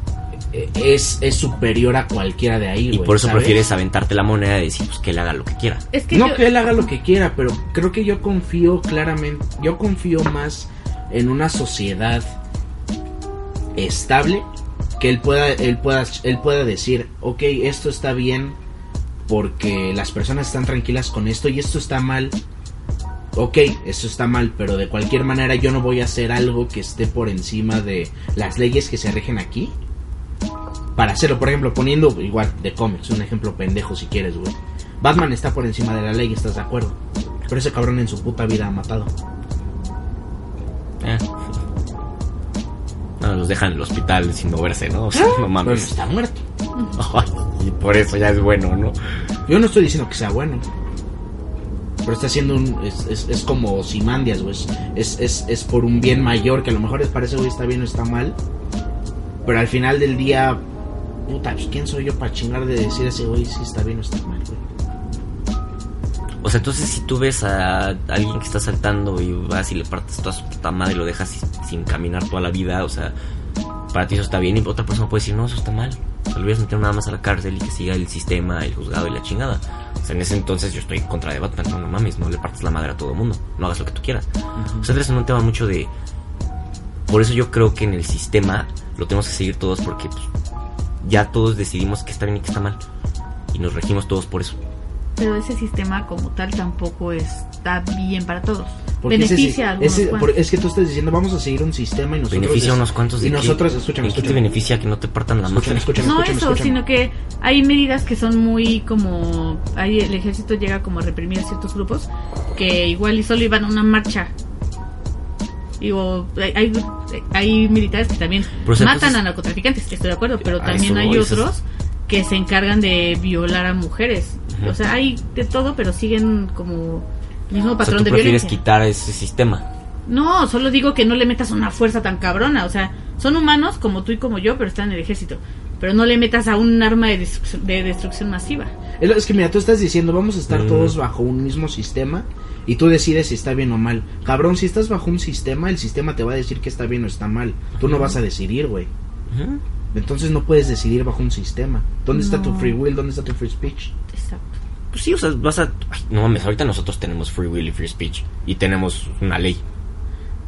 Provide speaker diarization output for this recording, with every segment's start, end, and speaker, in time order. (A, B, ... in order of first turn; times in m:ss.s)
0:00.5-0:03.7 A
0:02.9-0:05.8 B
0:05.9-0:06.5 C
0:06.1-0:12.3 A
0:13.7-0:14.5 A
0:15.0-0:18.6 A
0:19.3-0:22.4 A
0:23.4-0:29.7 A
0:31.0-0:37.0 A
0:37.5-0:39.1 A
0:41.0-0:41.4 B
0:43.2-0:45.9 B
0:45.1-0:46.4 A
0:47.0-0:49.0 B
0:49.4-0:50.6 A
0:52.0-0:58.4 A
0:59.4-1:00.6 A
1:01.2-1:04.6 A
1:06.4-1:13.1 B
1:13.9-1:24.2 B
1:24.6-1:24.9 A
1:24.8-1:25.9 B
1:27.1-1:30.3 B
1:31.0-1:32.8 B
1:33.5-1:34.6 B
1:35.2-1:40.4 C
1:39.0-1:44.4 A
1:42.3-1:46.1 B
1:45.4-1:46.8 A
1:46.0-1:54.3 C
1:55.8-2:08.6 C
1:58.6-1:59.2 B
2:00.5-2:01.5 B
2:07.8-2:09.6 B
2:10.1-2:18.7 C
2:19.0-2:28.9 A
2:20.5-2:21.0 B
2:29.3-2:29.6 B
2:29.9-2:33.9 A
2:32.1-2:32.8 C
2:34.1-2:34.6 C
2:34.9-2:39.6 B